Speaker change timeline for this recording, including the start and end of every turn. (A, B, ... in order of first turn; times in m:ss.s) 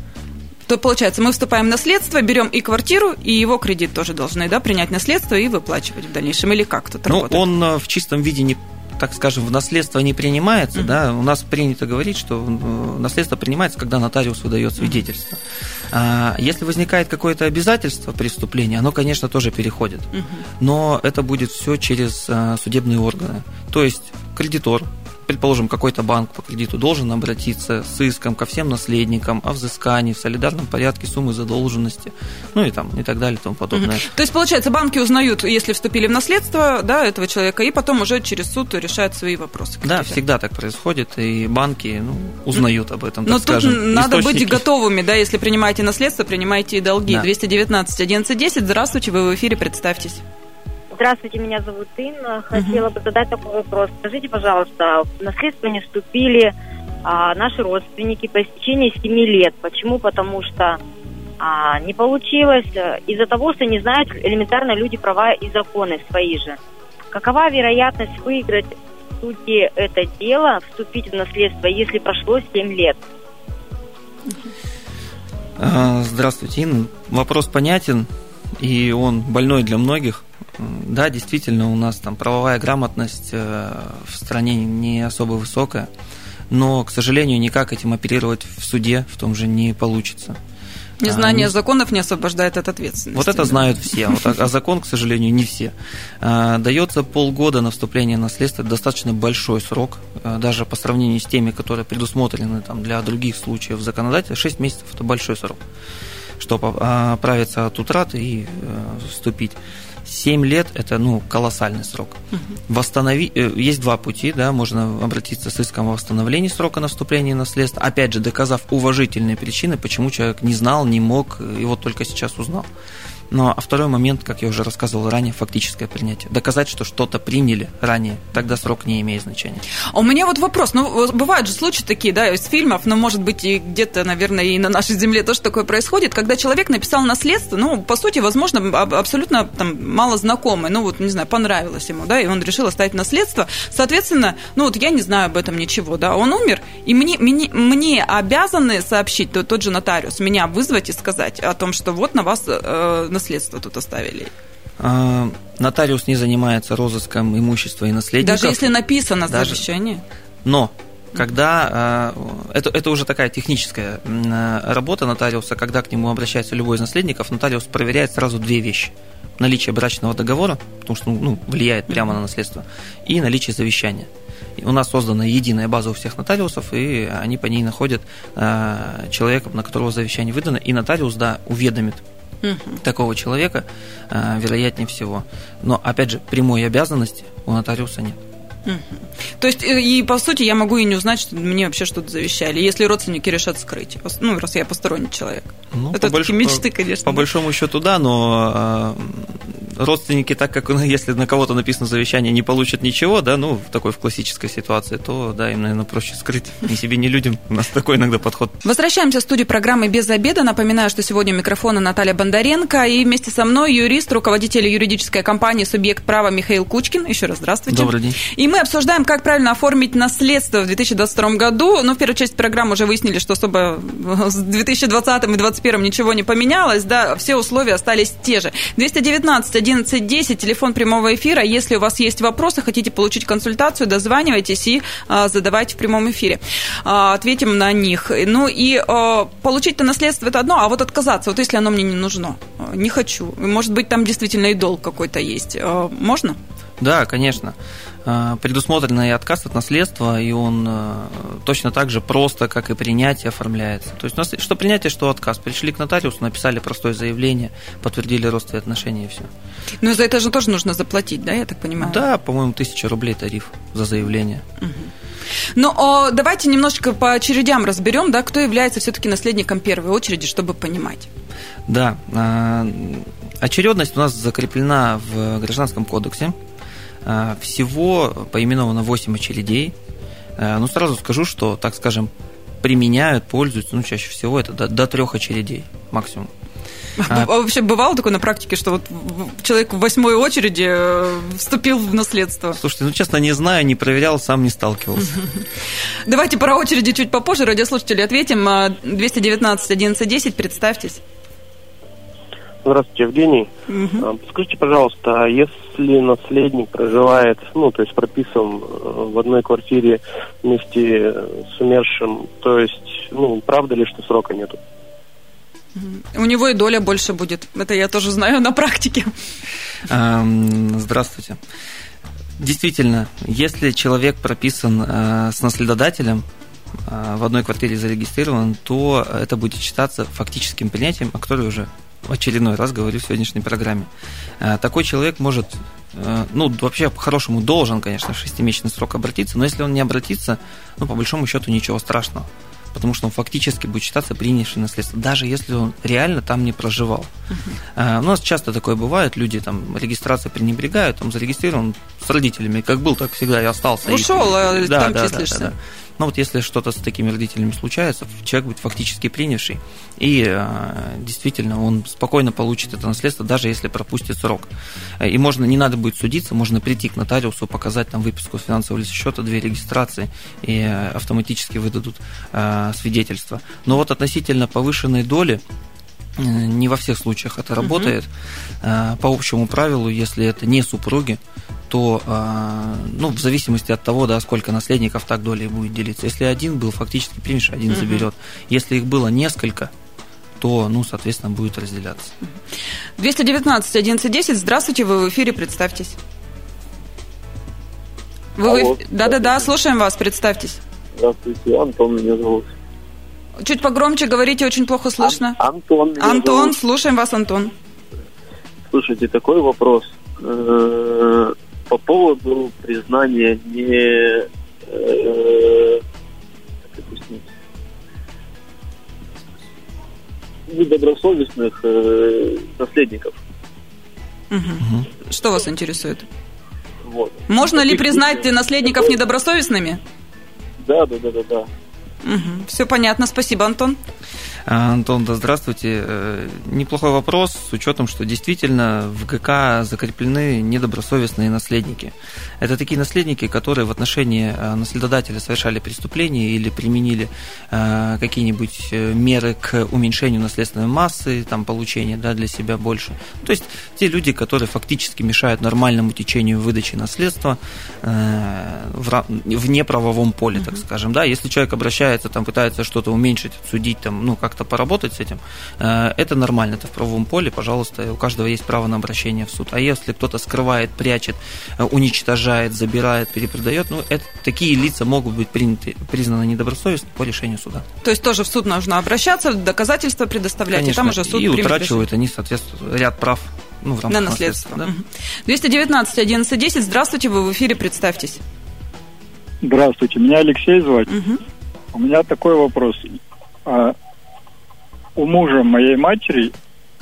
0:00.7-0:07.4 A
0:07.1-0:34.1 B
0:20.1-0:20.4 A
0:33.7-0:40.2 A
0:39.8-0:44.6 B
0:43.3-0:50.2 A
0:50.9-0:56.5 C
0:52.5-0:52.9 A
0:57.0-1:00.8 C
1:01.4-1:06.6 C
1:07.1-1:13.0 C
1:15.6-1:25.9 B
1:26.5-1:30.4 B
1:31.0-1:34.3 A
1:31.0-1:31.5 B
1:33.2-1:45.6 B
1:46.4-2:02.7 B
2:03.3-2:09.6 B
2:09.9-2:34.3 A
2:34.8-2:38.7 B
2:38.2-2:40.0 A
2:39.3-2:39.6 B
2:40.4-3:02.0 B
3:02.4-3:02.8 A
3:02.8-3:08.2 B
3:08.7-3:17.3 A
3:15.7-3:28.6 B
3:28.6-4:06.4 A
3:37.7-3:38.2 B
4:06.8-4:19.3 B
4:19.8-4:22.0 A
4:21.8-4:24.4 B
4:24.6-4:24.9 A
4:25.6-4:31.1 A
4:31.7-4:36.4 B
4:37.0-4:39.8 B
4:40.4-4:42.1 B
4:42.6-4:46.3 B
4:47.0-4:52.6 A
4:52.6-4:55.2 B
4:56.1-5:01.0 A
5:02.6-5:14.6 D
5:03.7-5:04.0 A
5:15.8-5:19.1 A
5:19.9-5:21.4 B
5:22.4-5:26.3 B
5:26.8-5:47.1 B
5:47.8-6:15.4 B
5:53.8-5:55.5 A
6:16.2-6:18.1 B
6:17.6-6:17.9 A
6:18.6-6:29.7 B
6:27.7-6:28.1 A
6:30.4-6:32.2 B
6:33.0-6:36.0 A
6:38.4-6:40.6 A
6:38.4-6:39.4 E
6:41.0-6:42.5 E
6:43.4-6:45.4 A
6:45.0-6:46.6 E
6:46.0-6:47.5 A
6:48.7-6:55.8 E
6:56.7-6:57.3 E
7:00.5-7:03.2 E
7:04.3-7:06.1 A
7:04.6-7:04.9 B
7:06.8-7:09.0 E
7:07.3-7:09.8 A
7:10.6-7:11.5 E
7:12.0-7:13.8 A
7:14.5-7:57.7 B
7:40.4-7:40.6 A
7:57.8-8:01.9 A
8:00.5-8:04.7 B
8:03.9-8:08.2 A
8:09.4-8:10.9 F
8:10.9-8:11.2 A
8:11.7-8:13.8 F
8:15.0-8:16.3 F